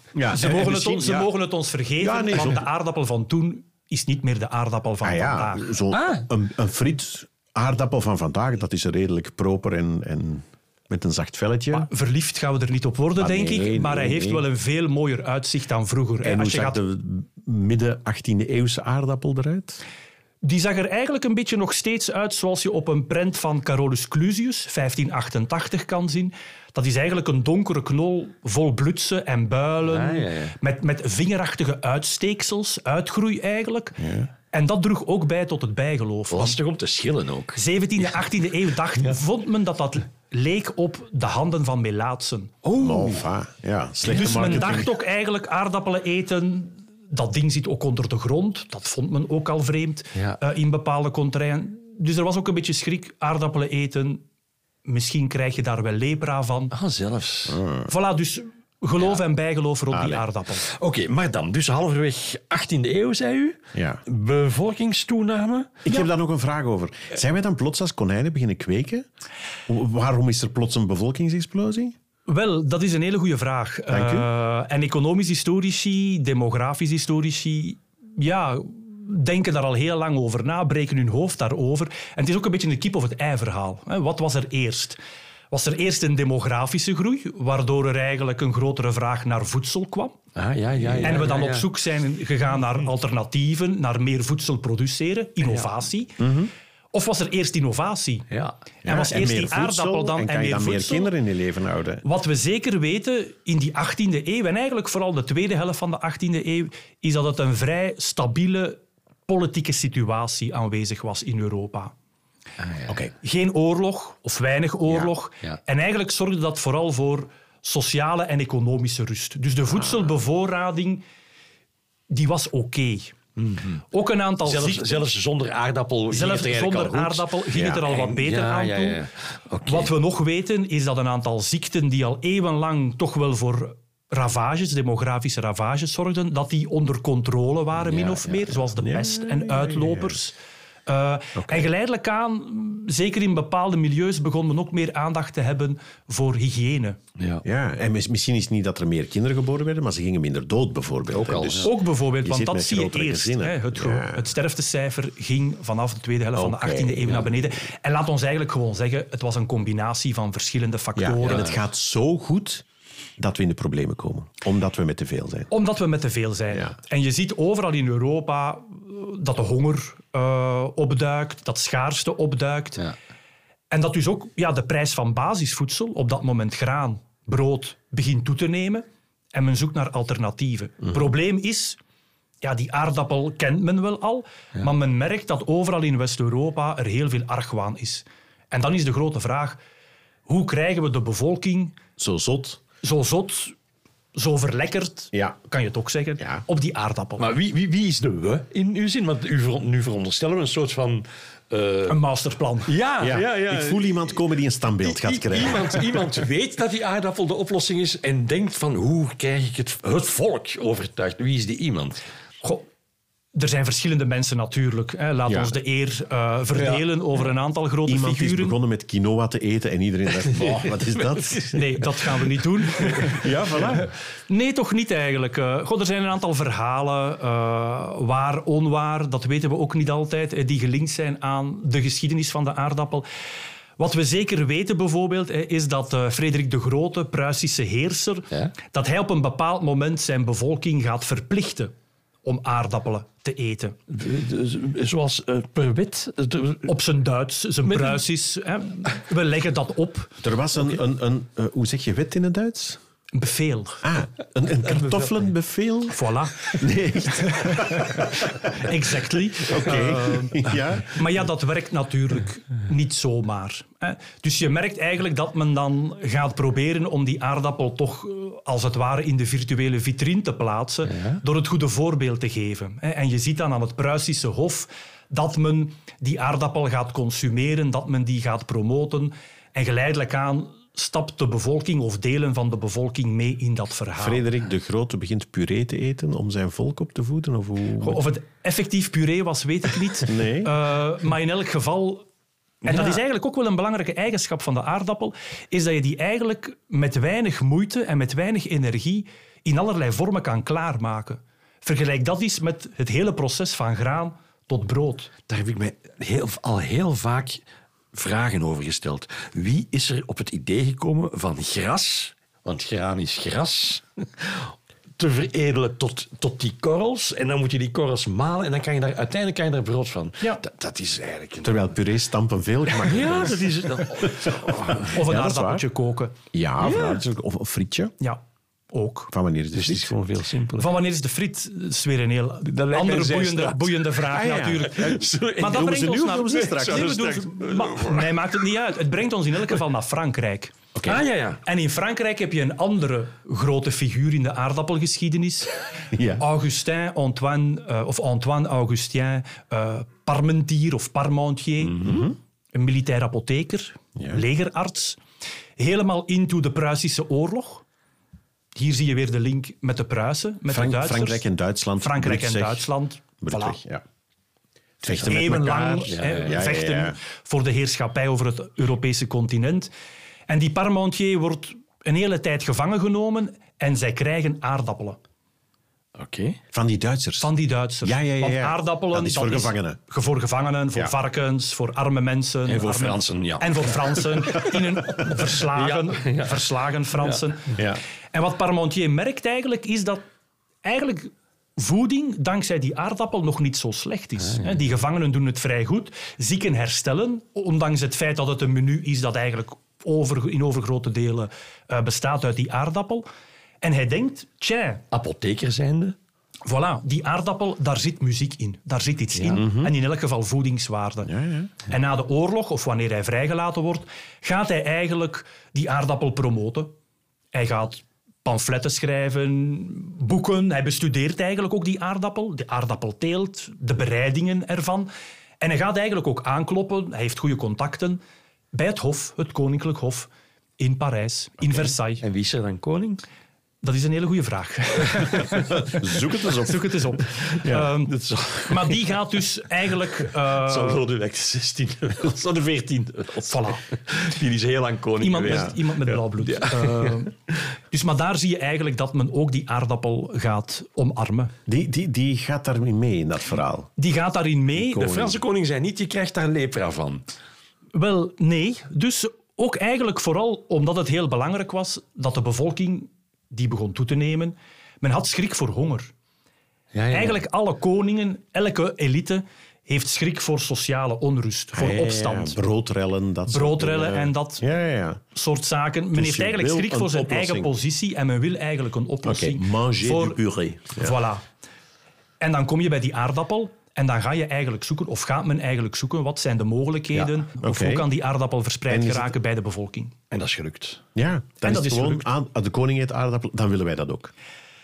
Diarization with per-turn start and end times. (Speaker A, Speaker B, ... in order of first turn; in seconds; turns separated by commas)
Speaker A: 0.1-1.3, Speaker B: 0.3-5.8, Speaker A: 2.0-2.6, Speaker A: 5.0-11.9, Speaker C: 5.9-6.2, Speaker B: 11.7-16.8, Speaker A: 13.2-14.4, Speaker A: 16.2-19.8, Speaker B: 20.4-34.0, Speaker C: 29.8-30.6, Speaker A: 34.0-34.3, Speaker B: 34.5-36.6, Speaker C: 36.3-37.6, Speaker B: 37.5-42.5, Speaker C: 42.6-43.2, Speaker A: 42.8-44.9, Speaker B: 44.1-54.2, Speaker C: 44.3-44.8, Speaker B: 54.8-56.7, Speaker C: 56.7-57.6, Speaker A: 57.5-57.9, Speaker B: 57.9-60.7, Speaker A: 59.9-60.2, Speaker C: 60.7-65.8, Speaker A: 63.7-64.0, Speaker A: 65.8-69.1, Speaker A: 69.7-71.9, Speaker B: 72.3-85.0, Speaker A: 73.9-74.3, Speaker B: 85.5-90.2, Speaker C: 90.3-91.7, Speaker A: 90.8-91.3, Speaker B: 91.0-96.2, Speaker C: 95.4-95.8, Speaker A: 96.2-96.5, Speaker B: 96.9-98.2, Speaker C: 98.3-98.5, Speaker B: 98.8-101.1, Speaker A: 98.8-102.0, Speaker B: 102.0-111.9, Speaker C: 112.6-113.0, Speaker A: 112.9-113.1, Speaker B: 113.2-121.0, Speaker A: 119.8-120.0, Speaker B: 122.1-123.1, Speaker C: 123.4-123.8, Speaker B: 123.9-125.0, Speaker C: 124.4-129.9, Speaker B: 126.1-129.0, Speaker A: 127.5-127.8, Speaker B: 129.7-140.4, Speaker C: 137.8-138.6, Speaker A: 138.8-140.2, Speaker B: 140.9-147.0, Speaker A: 141.4-141.7, Speaker C: 147.2-147.4, Speaker A: 147.4-154.2, Speaker C: 151.1-151.7, Speaker B: 151.6-161.6, Speaker A: 156.3-157.4, Speaker A: 161.0-162.7, Speaker C: 161.2-161.5, Speaker A: 163.2-165.5, Speaker B: 165.5-172.9, Speaker B: 173.7-181.8, Speaker B: 182.4-189.6, Speaker B: 190.3-191.8, Speaker A: 192.0-192.6, Speaker B: 192.8-193.6, Speaker B: 194.1-197.3, Speaker C: 197.2-202.0, Speaker B: 201.9-202.7, Speaker C: 202.7-204.2, Speaker A: 203.0-206.1, Speaker C: 204.8-212.0, Speaker B: 213.3-218.6, Speaker A: 215.3-215.5, Speaker A: 217.9-221.6, Speaker C: 220.3-220.7, Speaker B: 221.5-223.2, Speaker A: 223.0-223.9, Speaker B: 224.3-233.1, Speaker B: 233.8-241.7, Speaker B: 242.2-243.8, Speaker C: 243.9-246.7, Speaker B: 246.7-250.2, Speaker C: 247.7-248.0, Speaker A: 250.2-252.8, Speaker B: 253.1-253.8, Speaker A: 253.8-258.7, Speaker B: 255.9-256.6, Speaker B: 257.1-284.2, Speaker A: 259.4-261.0, Speaker C: 270.9-271.2, Speaker A: 284.0-288.0, Speaker B: 287.8-292.1, Speaker A: 290.0-290.5, Speaker C: 292.6-293.0, Speaker B: 292.6-305.1, Speaker C: 305.3-321.6, Speaker A: 321.4-325.6, Speaker C: 322.7-324.9, Speaker B: 324.9-326.2, Speaker A: 326.3-327.9, Speaker C: 326.6-327.0, Speaker B: 328.0-329.1, Speaker A: 329.1-329.9, Speaker C: 329.5-330.7, Speaker B: 330.6-340.6, Speaker C: 332.4-333.8, Speaker A: 334.1-337.4, Speaker C: 334.7-338.4, Speaker A: 340.7-341.0, Speaker C: 340.9-341.4, Speaker B: 341.4-345.5, Speaker A: 345.9-346.2, Speaker B: 346.2-355.0, Speaker A: 351.8-352.1, Speaker A: 353.9-354.2, Speaker B: 355.6-357.6, Speaker B: 358.6-361.2, Speaker A: 360.5-363.8, Speaker B: 361.8-363.6, Speaker A: 364.8-367.0, Speaker B: 365.0-369.7, Speaker C: 365.9-366.4, Speaker B: 370.3-375.0, Speaker C: 375.9-376.4, Speaker A: 376.5-379.8, Speaker B: 377.2-387.6, Speaker C: 382.5-384.5, Speaker C: 385.0-387.2, Speaker A: 387.6-387.8, Speaker B: 388.1-390.0, Speaker B: 390.6-403.1, Speaker C: 394.2-394.6, Speaker B: 403.6-404.8, Speaker C: 404.9-405.9, Speaker B: 406.4-411.1, Speaker C: 409.2-409.4, Speaker A: 409.3-409.7, Speaker A: 411.1-411.5, Speaker B: 411.6-416.7, Speaker B: 417.3-424.9, Speaker B: 425.4-428.0, Speaker B: 428.5-432.0, Speaker C: 432.0-433.0, Speaker B: 433.6-437.9, Speaker A: 435.4-436.7, Speaker C: 437.8-439.0, Speaker B: 438.4-440.8, Speaker C: 440.1-447.1, Speaker B: 443.3-443.7, Speaker B: 445.0-447.1, Speaker A: 445.3-445.5, Speaker B: 447.7-451.3, Speaker A: 451.5-453.7, Speaker B: 453.8-454.9, Speaker A: 454.6-455.2, Speaker C: 454.7-457.1, Speaker B: 457.7-465.9, Speaker C: 466.7-467.2, Speaker B: 466.9-472.4, Speaker A: 471.5-475.0, Speaker B: 473.3-474.4, Speaker B: 475.1-480.2, Speaker A: 475.9-477.5, Speaker A: 479.0-480.9, Speaker B: 480.8-481.2, Speaker B: 482.2-489.9, Speaker A: 486.9-487.9, Speaker A: 488.7-489.1, Speaker C: 490.1-490.8, Speaker A: 490.9-494.1, Speaker B: 491.4-492.1